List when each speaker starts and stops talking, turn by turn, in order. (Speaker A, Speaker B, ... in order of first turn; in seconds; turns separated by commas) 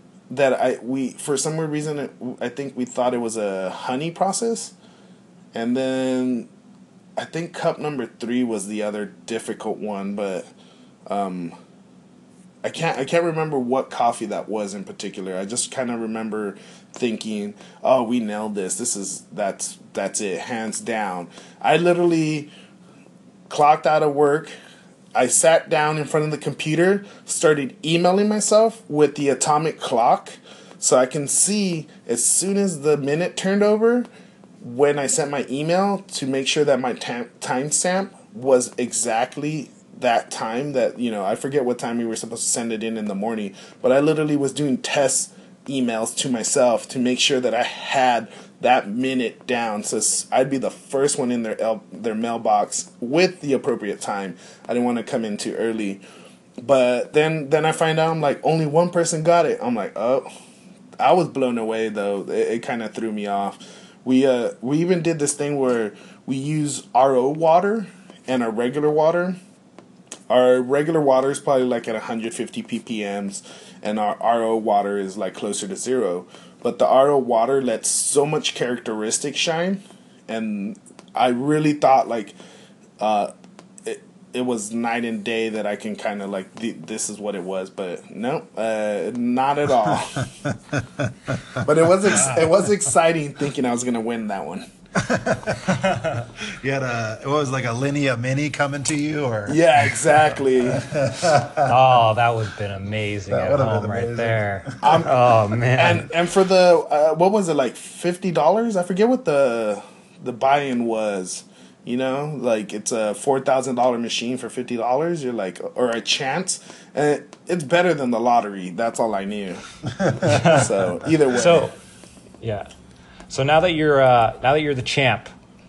Speaker A: 0.3-4.7, Speaker A: 5.5-6.5, Speaker A: 7.2-10.5, Speaker A: 11.1-11.5, Speaker A: 12.6-22.5, Speaker A: 23.5-24.5, Speaker A: 25.1-34.1, Speaker A: 34.6-56.0, Speaker A: 56.6-60.3, Speaker A: 61.0-69.4, Speaker A: 70.3-82.3, Speaker A: 83.0-83.3, Speaker A: 83.8-90.3, Speaker B: 90.2-92.4, Speaker A: 91.6-94.7, Speaker B: 95.0-95.7, Speaker C: 95.7-96.2, Speaker B: 96.4-101.7, Speaker A: 99.5-100.9, Speaker C: 101.7-106.1, Speaker B: 103.3-105.1, Speaker A: 104.8-105.1, Speaker A: 105.8-119.7, Speaker B: 120.0-120.5, Speaker C: 120.2-120.7, Speaker A: 120.5-121.7, Speaker C: 121.3-121.7, Speaker C: 122.4-122.7, Speaker C: 123.3-125.3